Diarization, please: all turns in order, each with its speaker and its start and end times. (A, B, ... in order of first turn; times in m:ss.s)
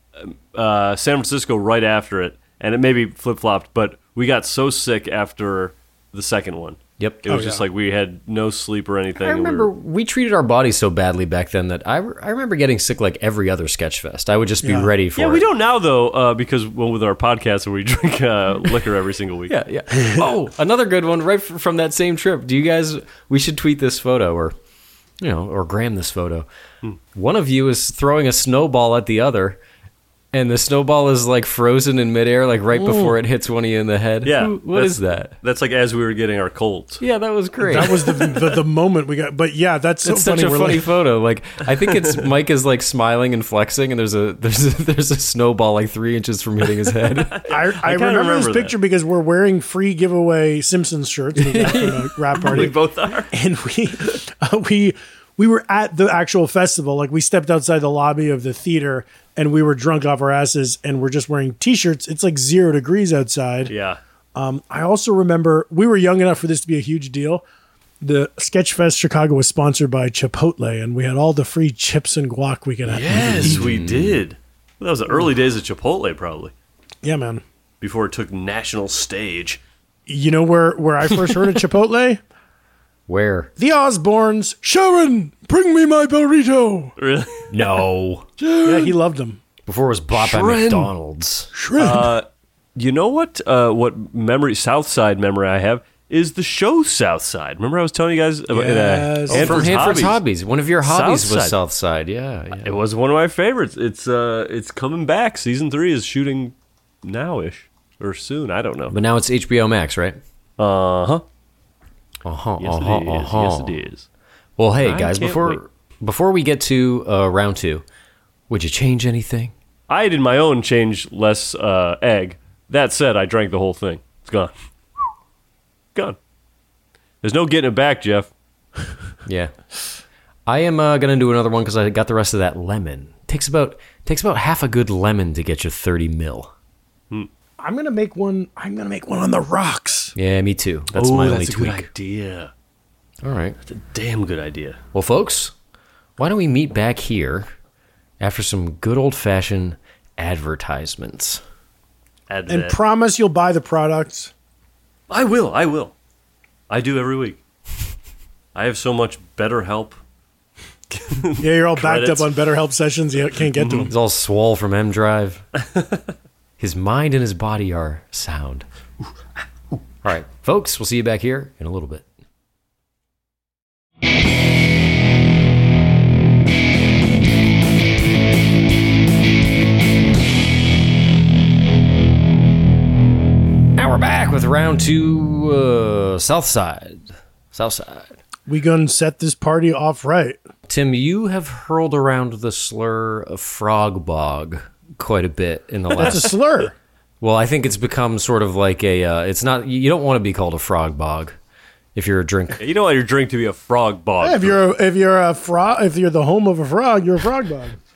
0:00.2-0:09.7 A
0:07.0-0:07.3 B
0:07.3-0:07.6 C
0:09.2-0:15.5 B
0:14.6-0:14.9 C
0:15.2-0:19.5 A
0:19.5-0:24.6 B
0:25.2-0:26.5 B
0:27.1-0:29.6 B
0:30.3-0:35.3 B
0:32.7-0:33.2 C
0:34.2-0:37.0 A
0:37.0-0:38.2 B
0:37.6-0:40.8 C
0:40.0-0:47.4 B
0:47.3-0:48.7 A
0:47.5-0:52.8 C
0:51.3-0:52.7 B
0:52.4-0:53.3 A
0:53.3-1:03.7 C
1:03.7-1:04.0 A
1:04.3-1:07.4 C
1:08.0-1:13.6 C
1:12.8-1:16.5 A
1:13.4-1:14.2 B
1:17.0-1:17.4 C
1:17.8-1:19.6 A
1:20.1-1:22.2 C
1:23.1-1:23.5 B
1:23.6-1:26.9 C
1:27.0-1:27.5 A
1:27.5-1:28.3 B
1:28.4-1:28.9 A
1:28.5-1:29.4 C
1:29.6-1:31.5 B
1:30.1-1:30.9 A
1:31.5-1:32.2 C
1:31.8-1:40.2 A
1:38.5-1:40.0 C
1:39.3-1:42.8 B
1:40.8-1:41.6 A
1:42.6-1:49.0 A
1:48.9-1:50.2 B
1:50.6-1:51.2 A
1:52.2-1:53.8 B
1:52.6-1:54.0 A
1:54.6-1:57.8 B
1:54.8-1:55.6 A
1:58.5-1:59.5 B
1:59.9-2:04.5 A
2:07.2-2:08.3 A
2:09.2-2:09.5 B
2:10.5-2:16.5 B
2:17.6-2:20.1 C
2:20.2-2:21.9 B
2:20.9-2:22.5 A
2:23.2-2:23.6 B
2:23.7-2:24.8 A
2:24.9-2:25.5 B
2:26.2-2:27.5 B
2:28.2-2:31.4 B
2:32.3-2:32.8 A
2:32.5-2:34.3 C
2:35.1-2:35.9 A
2:36.7-2:37.4 A
2:38.5-2:40.0 A
2:40.9-2:42.3 A
2:41.4-2:43.9 C
2:43.5-2:43.9 A
2:43.9-2:45.4 B
2:46.6-2:48.6 B
2:50.0-2:52.0 B
3:03.8-3:08.1 B
3:08.5-3:10.4 C
3:10.7-3:16.3 B
3:16.0-3:16.7 C
3:17.2-3:21.4 B
3:21.9-3:22.6 B
3:22.6-3:24.6 A
3:24.2-3:27.8 C